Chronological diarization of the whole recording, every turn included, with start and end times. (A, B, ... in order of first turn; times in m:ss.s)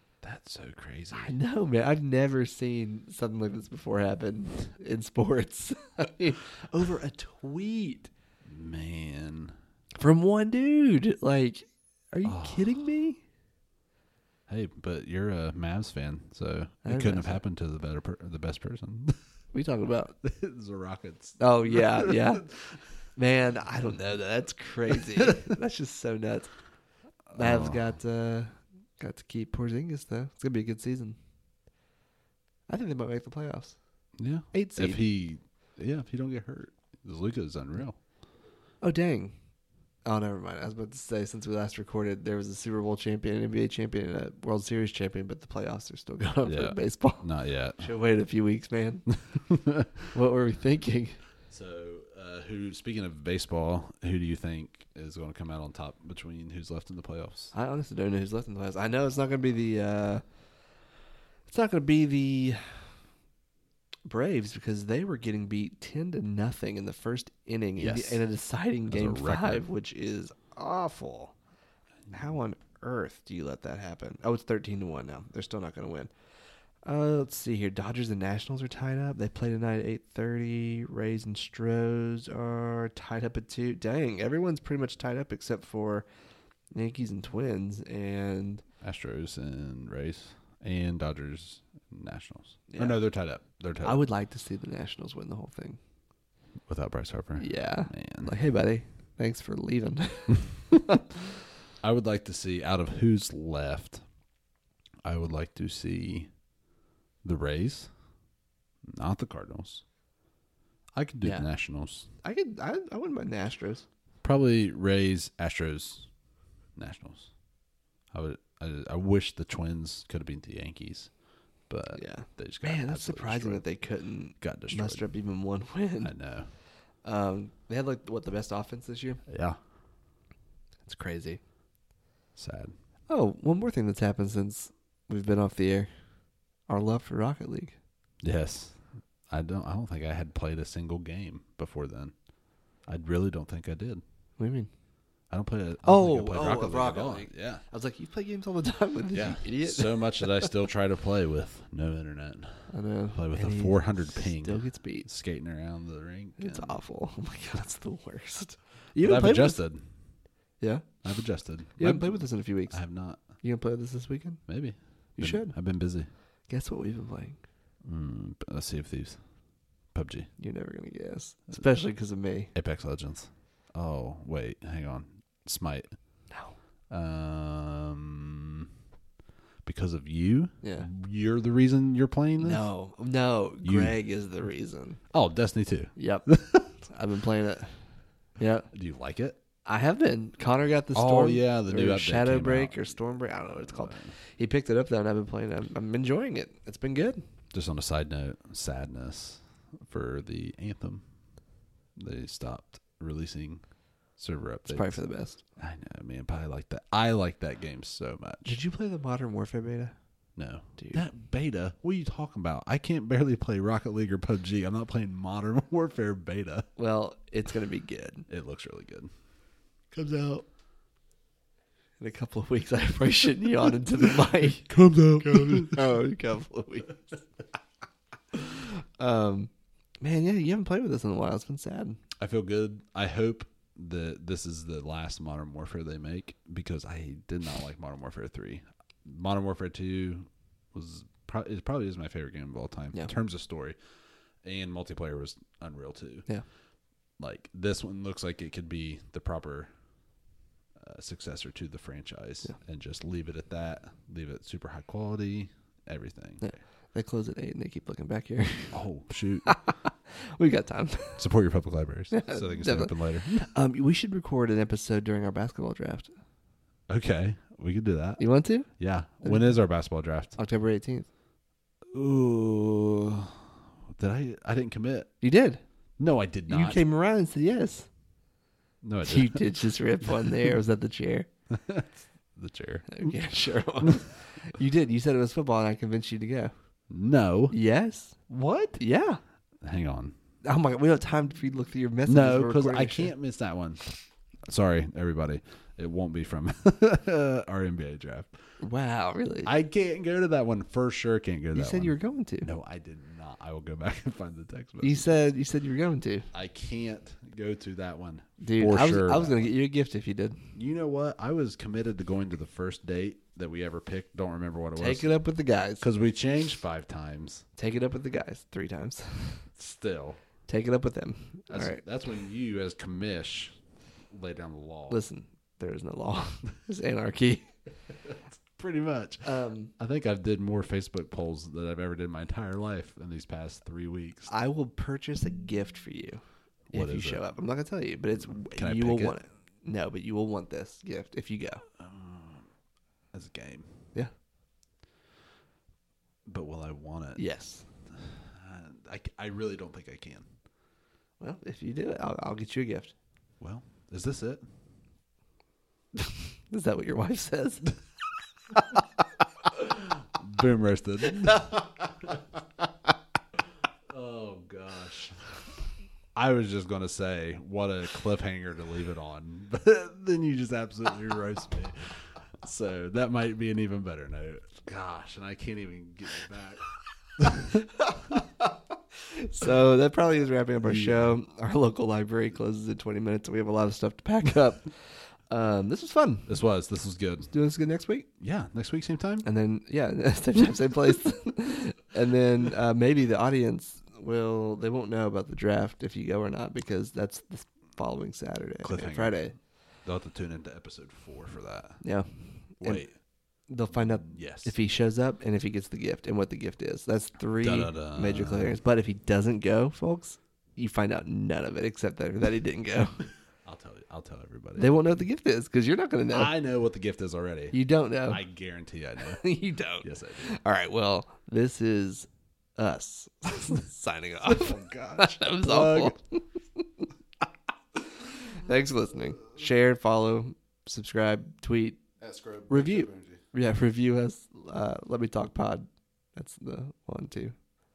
0:00.2-0:01.4 A
0:01.1-0:08.1 B
0:08.4-0:09.6 A
0:10.0-0:13.2 B
0:12.2-0:12.9 A
0:14.5-0:19.2 A
0:16.8-0:17.4 B
0:19.5-0:20.2 B
0:20.2-0:22.9 A
0:21.4-0:22.5 B
0:23.2-0:26.5 B
0:27.3-0:27.8 A
0:27.3-0:31.2 B
0:32.7-0:33.8 B
0:34.2-0:38.0 A
0:34.5-0:35.0 B
0:38.8-0:39.3 B
0:40.0-0:47.3 B
0:46.4-0:47.9 A
0:47.8-0:49.1 B
0:49.3-0:50.0 A
0:50.1-0:51.2 B
0:51.5-0:57.5 A
0:57.5-1:00.2 B
1:01.5-1:02.8 B
1:04.1-1:11.3 B
1:07.8-1:08.2 A
1:08.9-1:09.6 A
1:12.1-1:16.1 B
1:16.8-1:26.0 B
1:26.7-1:28.6 B
1:28.8-1:34.0 A
1:32.7-1:33.0 B
1:33.8-1:35.8 B
1:36.7-1:38.4 A
1:37.4-1:41.2 B
1:41.8-1:44.0 A
1:45.0-1:46.3 A
1:47.2-1:47.9 A
1:48.8-1:49.8 A
1:51.0-1:52.1 A
1:52.2-1:53.9 B
1:54.2-1:56.1 A
1:56.8-1:57.3 A
1:58.1-2:01.1 A
2:01.7-2:03.6 A
2:02.0-2:06.1 B
2:04.4-2:05.1 A
2:06.0-2:06.5 A
2:07.0-2:09.2 B
2:09.3-2:09.6 A
2:10.8-2:11.4 B
2:12.4-2:12.8 A
2:13.1-2:15.9 B
2:16.7-2:17.8 B
2:18.2-2:22.1 A
2:22.9-2:24.0 A
2:24.4-2:24.7 B
2:25.3-2:27.6 A
2:25.8-2:30.5 B
2:29.1-2:36.8 A
2:32.7-2:35.1 B
2:36.4-2:39.6 B
2:39.0-2:39.9 A
2:40.6-2:40.9 B
2:41.0-2:43.2 A
2:41.8-2:42.8 B
2:43.3-2:44.4 B
2:44.5-2:46.1 A
2:45.2-2:45.6 B
2:46.5-2:47.4 B
2:47.8-2:49.2 A
2:49.9-2:50.3 A
2:50.4-2:52.5 B
2:52.5-2:55.9 A
2:56.3-2:56.6 B
2:56.9-2:58.7 A
2:59.6-3:02.6 A
3:00.6-3:00.9 B
3:02.4-3:05.0 B
3:03.6-3:04.0 A
3:05.1-3:06.7 A
3:06.0-3:06.3 B
3:06.8-3:07.8 B
3:08.4-3:08.7 B
3:08.7-3:09.4 A
3:09.7-3:17.2 B
3:10.9-3:14.1 A
3:17.5-3:21.0 A
3:22.0-3:23.6 A
3:24.2-3:25.0 A
3:24.7-3:25.4 B
3:25.6-3:28.6 A
3:28.5-3:30.0 B
3:30.4-3:36.7 A
3:30.8-3:31.0 B
3:36.8-3:38.3 B
3:38.3-3:39.1 A
3:39.9-3:40.4 B
3:42.0-3:44.8 B
3:44.7-3:45.8 A
3:45.4-3:47.0 B
3:48.3-3:52.0 B
3:52.2-4:03.8 A
4:04.4-4:06.3 A
4:07.2-4:09.7 A
4:10.8-4:16.6 A
4:16.4-4:18.8 B
4:18.7-4:19.5 A
4:19.4-4:21.2 B
4:21.2-4:23.5 A
4:22.1-4:26.1 B
4:26.9-4:28.2 A
4:28.2-4:28.7 B
4:28.8-4:30.4 A
4:29.2-4:29.5 B
4:30.4-4:31.1 B
4:31.9-4:35.1 A
4:35.2-4:35.6 B
4:36.0-4:36.8 A
4:36.5-4:37.9 B
4:38.8-4:39.5 A
4:39.0-4:41.3 B
4:41.5-4:43.2 A
4:42.9-4:46.5 B
4:46.9-4:47.6 A
4:47.5-4:48.3 B
4:48.3-4:48.8 A
4:48.8-4:49.2 B
4:49.6-4:50.1 A
4:50.4-4:53.1 B
4:52.1-4:53.9 A
4:54.4-4:58.4 A
4:58.6-4:59.5 B
4:59.4-5:05.1 A
5:01.5-5:02.5 B
5:04.8-5:06.3 B
5:06.3-5:09.5 A
5:08.4-5:10.4 B
5:10.5-5:15.1 A
5:14.8-5:15.8 B
5:15.8-5:17.4 A
5:17.6-5:19.5 B
5:19.6-5:20.2 A
5:20.5-5:21.8 B
5:21.5-5:23.6 A
5:24.1-5:25.0 A
5:24.9-5:27.6 B
5:28.1-5:29.3 A
5:29.2-5:29.7 B
5:29.8-5:34.3 A
5:34.3-5:41.6 B
5:36.7-5:37.3 A
5:38.2-5:39.2 A
5:41.8-5:42.5 A
5:43.1-5:43.7 A
5:46.3-5:47.2 A
5:47.2-5:47.7 B
5:47.9-5:50.3 A
5:51.2-5:52.9 B
5:53.4-5:54.4 A
5:56.0-5:57.8 B
5:58.5-5:58.8 B
5:59.6-6:02.2 A
6:03.9-6:05.3 A
6:06.2-6:16.7 A
6:17.2-6:17.6 A
6:17.8-6:26.3 B
6:20.6-6:21.2 A
6:26.3-6:27.3 A
6:27.3-6:28.1 B
6:28.2-6:29.3 A
6:29.2-6:39.3 B
6:38.6-6:39.2 A
6:39.8-6:41.8 A
6:41.8-6:42.9 B
6:42.6-6:42.9 A
6:43.5-6:53.0 B
6:43.7-6:44.5 A
6:47.4-6:48.6 A
6:53.4-6:55.0 A
6:54.6-6:56.3 B
6:56.1-6:59.2 A
6:57.5-6:58.2 B
6:59.0-7:06.9 B
6:59.8-7:00.3 A
7:04.2-7:06.0 A
7:08.1-7:11.8 B
7:12.0-7:13.2 A
7:12.5-7:17.4 B